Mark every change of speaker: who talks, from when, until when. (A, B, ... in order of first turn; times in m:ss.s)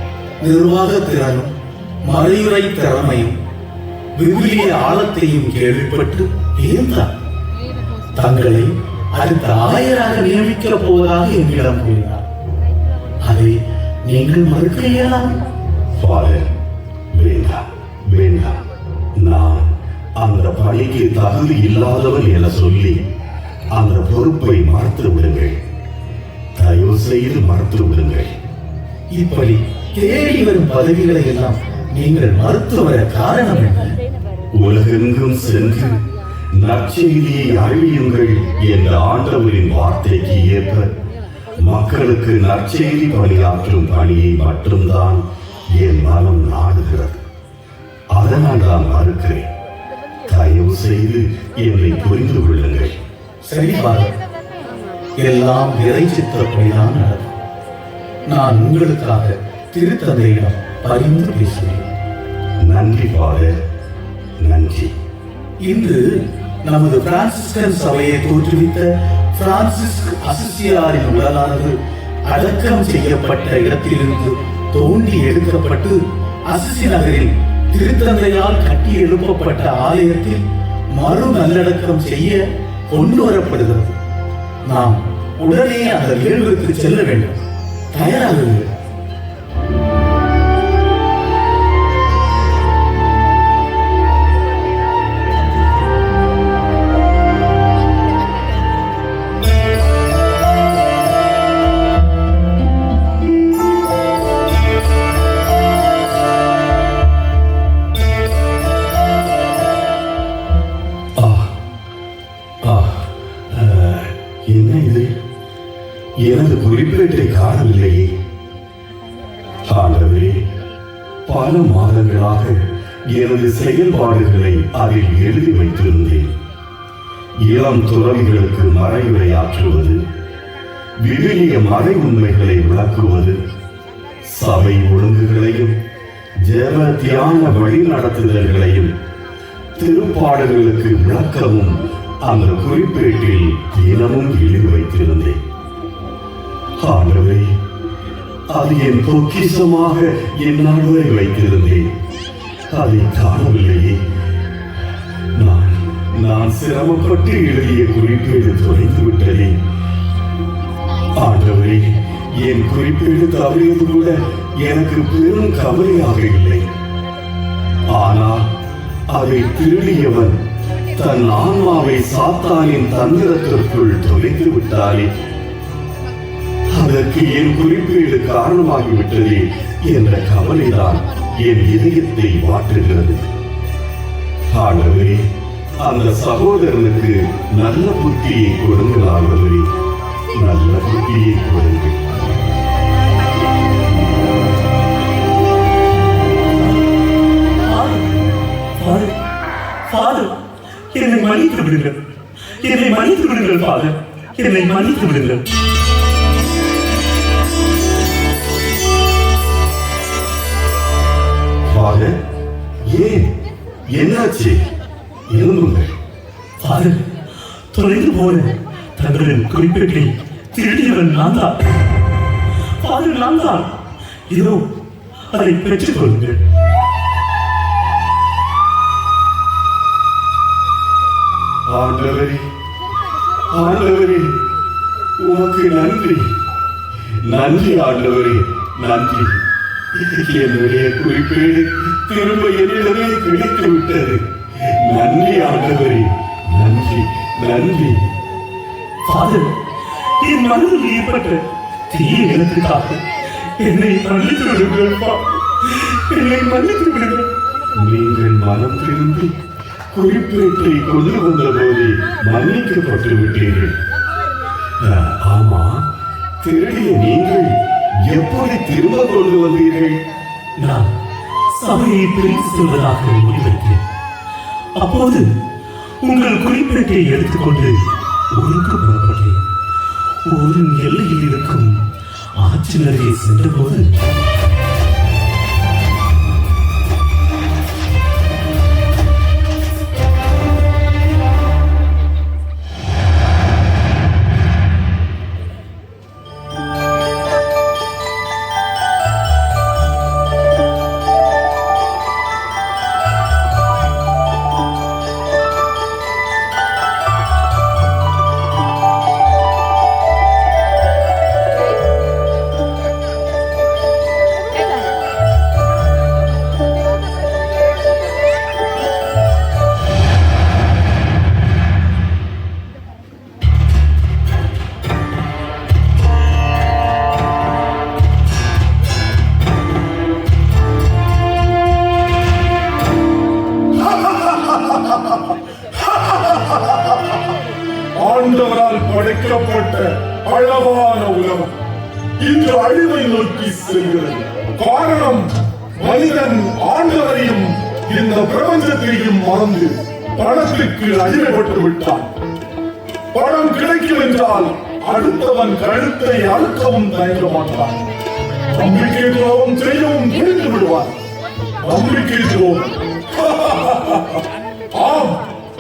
0:00.4-0:01.5 A
0:02.0-0:03.4 A
0:04.2-0:07.1 A
0:08.2-0:12.2 A
0:13.2-0:15.2 A
0:16.0-0:16.5 B
0:17.1-0:18.6 B
0:19.2-0:23.0 B
0:23.7-0:25.6 B
0:26.6-0:28.3 B
0:29.1-0:34.0 A
0:34.5-0:36.0 B
0:36.5-0:40.9 B
0:41.6-0:47.2 B
0:48.1-0:49.5 B
0:50.3-0:53.0 B
0:53.5-0:54.1 A
0:55.2-0:57.4 A
0:58.3-1:01.9 A
1:02.6-1:03.6 B
1:04.4-1:04.9 B
1:05.6-1:06.0 A
1:06.6-1:11.8 A
1:12.3-1:20.4 A
1:21.0-1:22.4 A
1:22.9-1:23.9 A
1:24.7-1:27.4 A
1:27.9-1:28.6 A
1:51.2-1:51.5 B
1:52.6-1:55.1 B
1:56.2-1:58.1 B
1:59.6-2:00.4 B
2:01.3-2:06.4 B
2:07.4-2:10.0 B
2:11.0-2:13.4 B
2:14.2-2:15.8 B
2:16.4-2:18.9 B
2:19.8-2:25.4 B
2:26.8-2:27.5 B
2:28.5-2:31.9 B
2:32.7-2:34.0 B
2:35.4-2:39.6 B
2:41.1-2:46.7 B
2:47.9-2:48.5 B
2:49.1-2:50.4 B
2:51.0-2:55.1 B
2:56.7-3:03.3 B
3:04.5-3:09.7 B
3:10.3-3:12.0 B
3:17.7-3:18.1 C
3:18.8-3:19.1 C
3:19.9-3:20.4 C
3:20.9-3:22.0 C
3:22.6-3:25.4 C
3:31.7-3:32.2 B
3:32.8-3:33.3 B
3:33.9-3:34.6 B
3:35.3-3:36.0 B
3:36.6-3:37.0 C
3:37.7-3:41.6 C
3:42.8-3:43.8 C
3:44.3-3:44.6 C
3:45.3-3:46.4 C
3:51.7-3:52.4 B
3:53.5-3:54.4 B
3:55.2-3:56.3 B
3:57.2-3:59.4 B
3:59.9-4:08.0 B
4:09.1-4:09.5 C
4:10.0-4:13.0 C
4:13.6-4:17.2 C
4:17.8-4:19.4 B
4:19.9-4:23.8 B
4:24.8-4:25.9 B
4:26.4-4:30.0 B
4:30.6-4:30.9 C
4:31.5-4:33.8 C
4:34.8-4:35.3 C
4:36.0-4:37.8 C
4:38.3-4:39.4 C
4:40.2-4:41.8 C
4:42.4-4:43.9 C
5:33.8-5:35.2 D
5:35.8-5:37.0 D
5:38.0-5:41.5 D
5:42.2-5:45.3 D
5:45.8-5:52.1 D
5:53.1-5:57.8 D
5:58.5-6:01.0 D
6:01.6-6:04.2 D
6:04.8-6:05.2 D